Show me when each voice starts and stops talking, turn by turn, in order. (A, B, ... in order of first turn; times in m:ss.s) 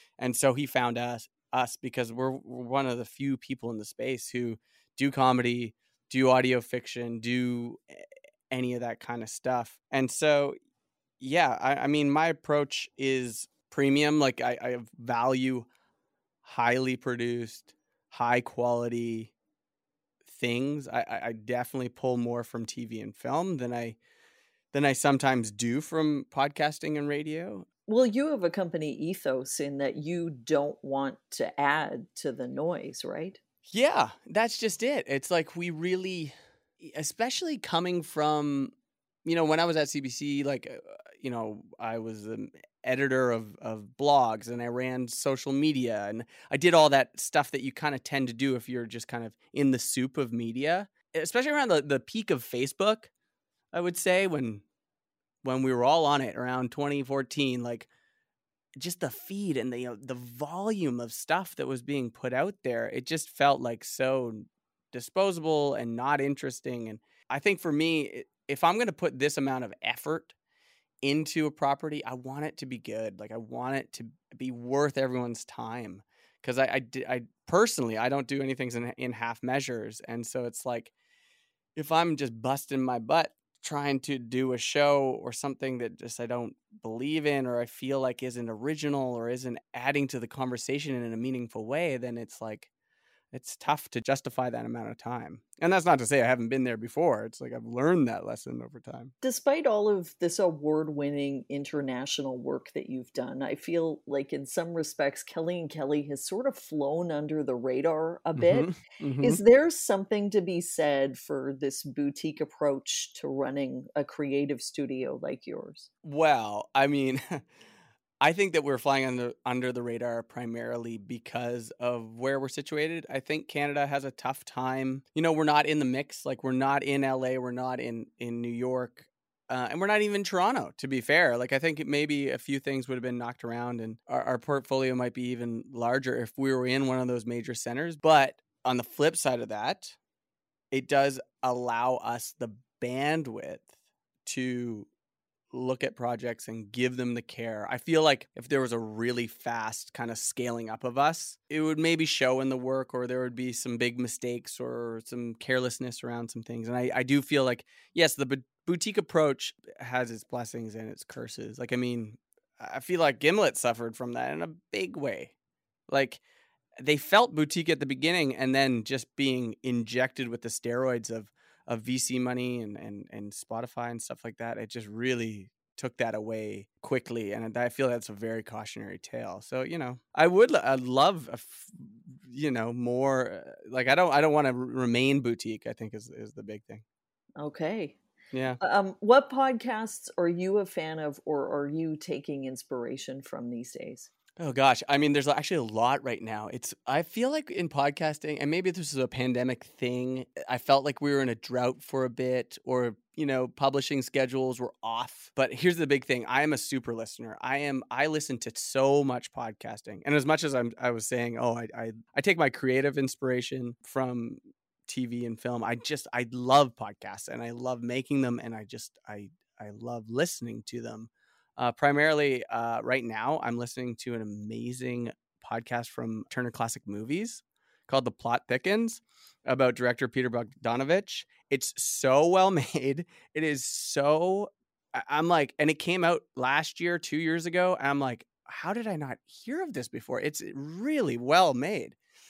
0:00.2-0:10.6 A
0:11.2-0:15.7 A
0:16.4-0:19.3 A
0:20.2-0:24.0 A
0:24.7-0:27.7 A
0:27.9-0:33.4 B
0:33.7-0:38.7 A
0:39.2-0:53.1 A
0:53.7-0:54.6 A
0:55.4-0:57.9 A
0:58.8-1:10.3 A
1:11.0-1:20.9 A
1:21.8-1:32.7 A
1:33.3-1:39.1 A
1:39.2-1:48.7 B
1:48.4-1:49.4 A
1:49.2-1:55.9 B
1:56.0-1:57.5 A
1:58.2-2:20.0 A
2:20.7-2:23.7 A
2:24.2-2:24.9 A
2:25.5-2:45.3 A
2:45.9-2:46.2 A
2:46.8-3:06.8 A
3:07.4-3:08.0 B
3:08.3-3:08.6 A
3:08.6-3:14.1 B
3:14.4-4:02.0 A